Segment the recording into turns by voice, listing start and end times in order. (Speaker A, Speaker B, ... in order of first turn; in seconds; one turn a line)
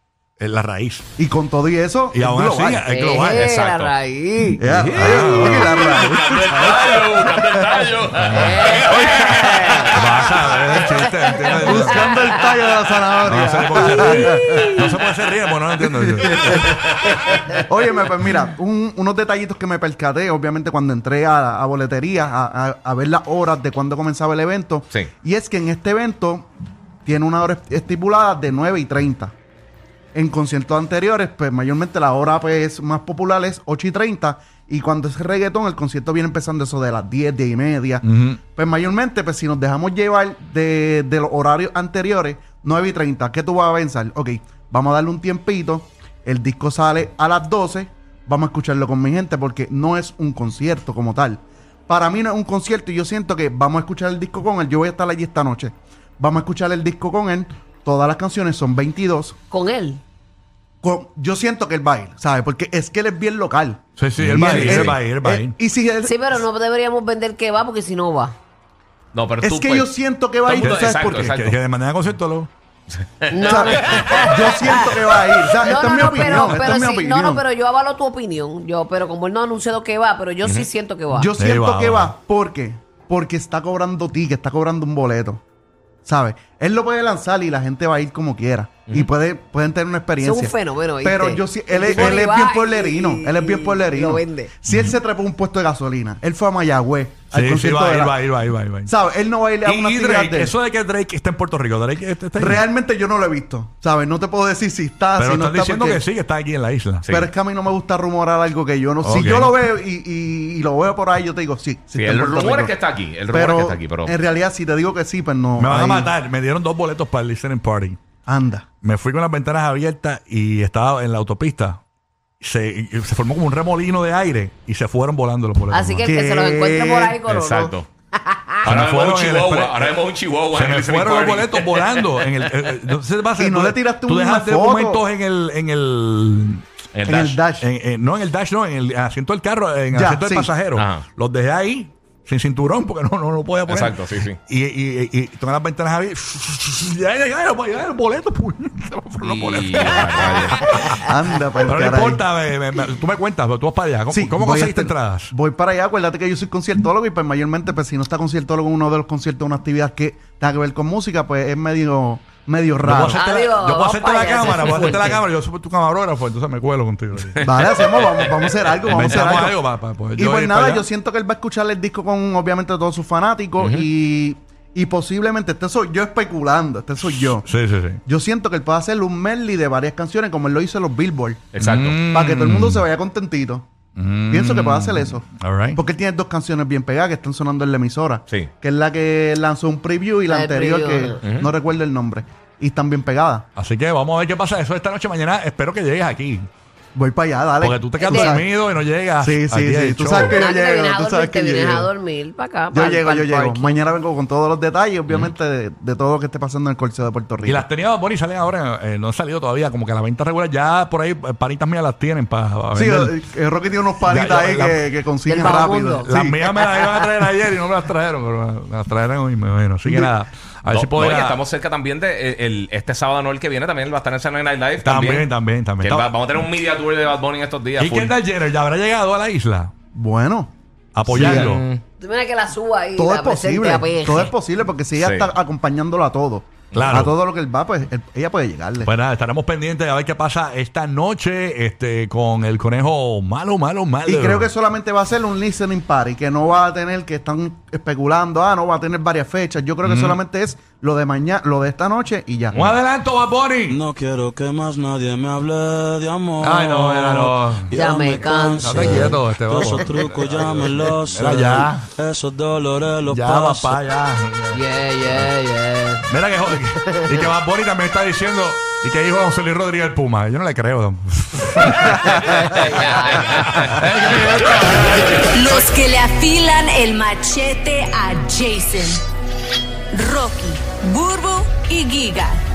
Speaker A: 0.4-1.1
Speaker B: 1.2-2.8
Speaker A: 2.1-3.5
Speaker C: 2.8-6.0
Speaker D: 3.3-3.9
Speaker B: 4.6-7.6
Speaker A: 4.6-5.8
Speaker D: 4.9-10.3
Speaker A: 8.1-12.2
Speaker C: 8.3-12.4
Speaker B: 11.6-14.9
Speaker A: 13.2-17.0
Speaker C: 13.7-14.9
Speaker B: 15.8-16.8
Speaker C: 17.1-17.6
Speaker B: 17.5-26.5
Speaker B: 27.0-29.3
Speaker B: 30.1-59.4
Speaker A: 38.0-38.4
Speaker C: 59.5-60.0
Speaker B: 60.8-66.4
Speaker A: 64.0-65.5
Speaker D: 64.2-65.0
Speaker C: 66.0-68.3
Speaker D: 69.1-69.9
Speaker B: 69.4-71.4
Speaker D: 70.4-71.6
Speaker A: 70.6-72.5
Speaker D: 72.9-74.8
Speaker C: 73.3-75.0
Speaker B: 73.4-77.4
Speaker C: 75.5-81.3
Speaker A: 76.1-76.6
Speaker D: 80.4-80.7
Speaker B: 81.1-85.4
Speaker A: 81.4-82.1
Speaker B: 86.0-98.2
Speaker C: 90.2-94.5
Speaker A: 97.3-98.9
Speaker B: 98.8-100.5
Speaker A: 99.6-102.6
Speaker B: 102.4-106.0
Speaker A: 105.2-107.1
Speaker D: 107.0-107.3
Speaker B: 107.1-112.7
Speaker A: 109.0-109.5
Speaker D: 112.0-114.1
Speaker B: 113.3-116.1
Speaker A: 115.6-118.0
Speaker B: 118.2-118.7
Speaker A: 118.8-121.8
Speaker A: 122.4-126.0
Speaker C: 125.7-128.8
Speaker B: 126.0-127.2
Speaker D: 127.3-127.9
Speaker D: 128.6-132.8
Speaker A: 128.6-129.9
Speaker A: 130.5-136.6
Speaker B: 133.4-135.0
Speaker D: 136.9-137.4
Speaker B: 137.1-137.7
Speaker A: 137.6-143.9
Speaker B: 139.9-140.5
Speaker D: 140.8-141.0
Speaker D: 143.7-144.4
Speaker A: 144.4-151.1
Speaker D: 149.2-150.6
Speaker B: 151.0-152.2
Speaker A: 151.6-155.3
Speaker B: 154.1-163.2
Speaker A: 162.8-167.5
Speaker C: 163.0-165.2
Speaker D: 167.2-168.5
Speaker B: 167.4-169.6
Speaker A: 168.9-170.8
Speaker B: 170.2-177.4
Speaker D: 173.6-173.9
Speaker A: 177.2-178.0
Speaker B: 178.1-181.5
Speaker D: 181.5-182.0
Speaker A: 181.6-182.8
Speaker B: 182.1-183.7
Speaker A: 184.0-185.8
Speaker B: 184.3-193.4
Speaker C: 190.3-191.2
Speaker D: 191.2-191.5
Speaker A: 193.6-196.5
Speaker B: 196.9-198.6
Speaker A: 197.6-200.4
Speaker C: 198.0-198.4
Speaker B: 199.2-201.9
Speaker C: 200.1-203.7
Speaker B: 202.7-207.6
Speaker A: 207.4-213.2
Speaker B: 212.7-216.5
Speaker A: 214.0-214.8
Speaker C: 215.3-216.1
Speaker A: 216.0-221.4
Speaker B: 219.8-220.1
Speaker D: 220.7-225.3
Speaker A: 224.8-226.1
Speaker D: 225.8-228.2
Speaker A: 227.8-229.7
Speaker B: 229.9-230.5
Speaker A: 230.9-231.6
Speaker B: 231.1-231.5
Speaker D: 231.1-231.8
Speaker C: 232.0-234.3
Speaker B: 232.9-238.9
Speaker D: 235.0-235.3
Speaker A: 236.7-237.1
Speaker A: 238.8-244.5
Speaker B: 244.0-252.6
Speaker A: 249.8-250.2
Speaker A: 252.5-253.8
Speaker E: 253.7-263.8
Speaker A: 256.4-257.8
Speaker C: 257.7-259.2
Speaker A: 258.6-261.9
Speaker A: 263.1-265.3
Speaker C: 264.5-266.1
Speaker A: 266.1-275.6
Speaker C: 266.8-267.3
Speaker C: 271.9-273.7
Speaker F: 275.4-278.9
Speaker F: 280.0-282.3